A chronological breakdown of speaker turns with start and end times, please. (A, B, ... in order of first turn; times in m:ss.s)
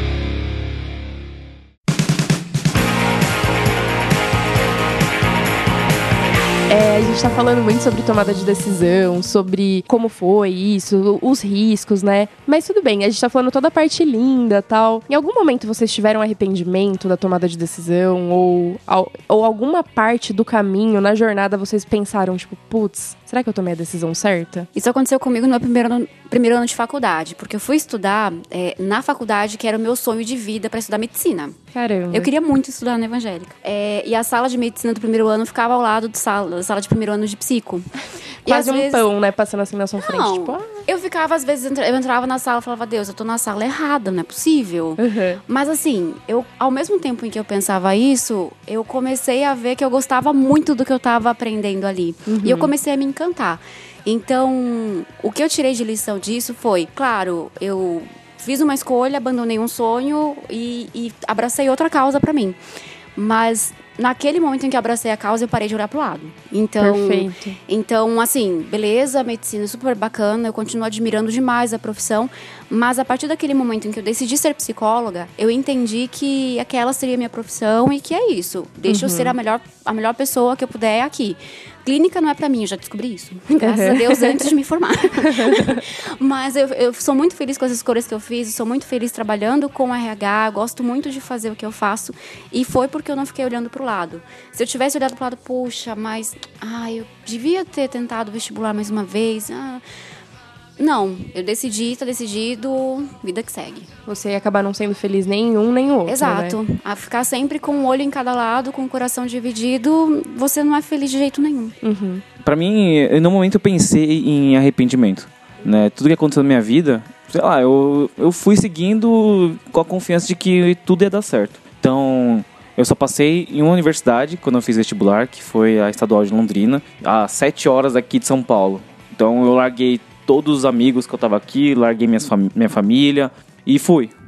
0:06.7-0:24.7 A
0:24.8-0:31.6 B
0:31.7-0:32.3 A
0:32.1-0:37.9 B
0:38.4-0:39.1 B
0:38.5-0:40.8 A
0:40.0-1:02.6 B
0:45.0-0:45.4 A
0:52.3-0:52.7 A
1:03.2-1:39.8 B
1:06.8-1:07.6 A
1:18.9-1:19.4 A
1:23.6-1:24.4 A
1:25.3-1:25.7 A
1:40.8-1:43.9 B
1:44.1-1:46.6 A
1:46.1-1:51.8 B
1:51.8-1:52.2 A
1:52.4-2:14.1 C